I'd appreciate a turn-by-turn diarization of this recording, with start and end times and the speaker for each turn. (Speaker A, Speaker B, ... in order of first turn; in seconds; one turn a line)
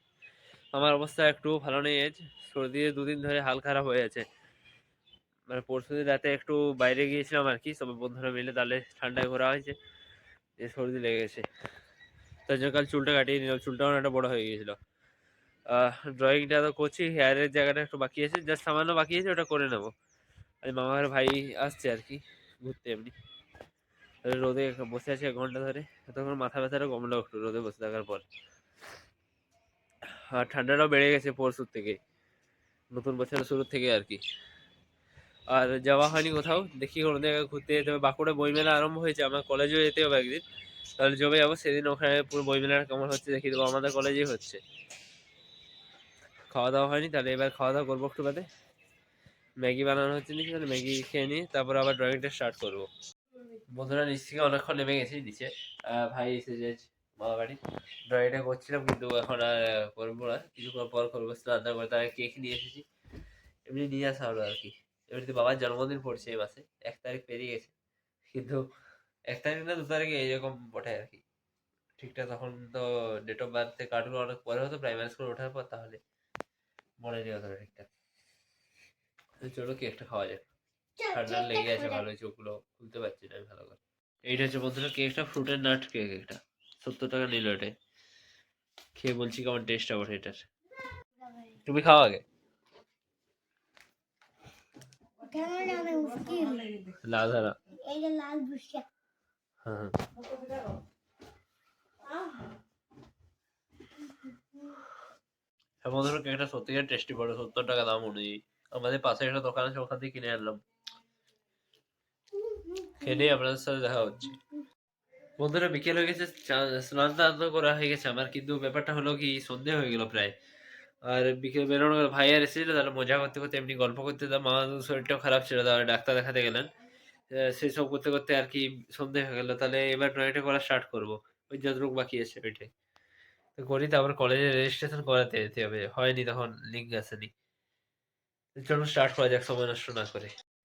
Speaker A: 0.7-4.2
Speaker A: 5.5-9.8
Speaker A: 10.6-11.5
Speaker A: 12.4-14.8
Speaker A: 15.7-19.9
Speaker A: 20.6-23.1
Speaker A: 24.2-28.2
Speaker A: 30.3-32.0
Speaker A: 32.9-34.2
Speaker A: 35.5-40.4
Speaker A: 41.0-44.6
Speaker A: 46.5-48.5
Speaker A: 49.6-52.9
Speaker A: 53.7-62.9
Speaker A: 63.6-67.7
Speaker A: 68.3-68.7
Speaker A: 69.3-71.2
Speaker A: 72.0-76.0
Speaker A: 77.0-77.9
Speaker A: 79.4-80.5
Speaker A: 81.0-87.7
Speaker B: 81.2-82.0
Speaker A: 88.9-90.4
Speaker A: 91.6-92.2
Speaker B: 95.2-96.9
Speaker A: 97.0-97.6
Speaker B: 97.8-98.8
Speaker A: 99.6-100.0
Speaker A: 105.8-110.6
Speaker B: 112.5-112.9
Speaker A: 112.9-114.4
Speaker A: 115.4-120.3
Speaker A: 121.0-126.7
Speaker A: 127.3-132.7
Speaker A: 133.6-137.3
Speaker A: 138.6-140.3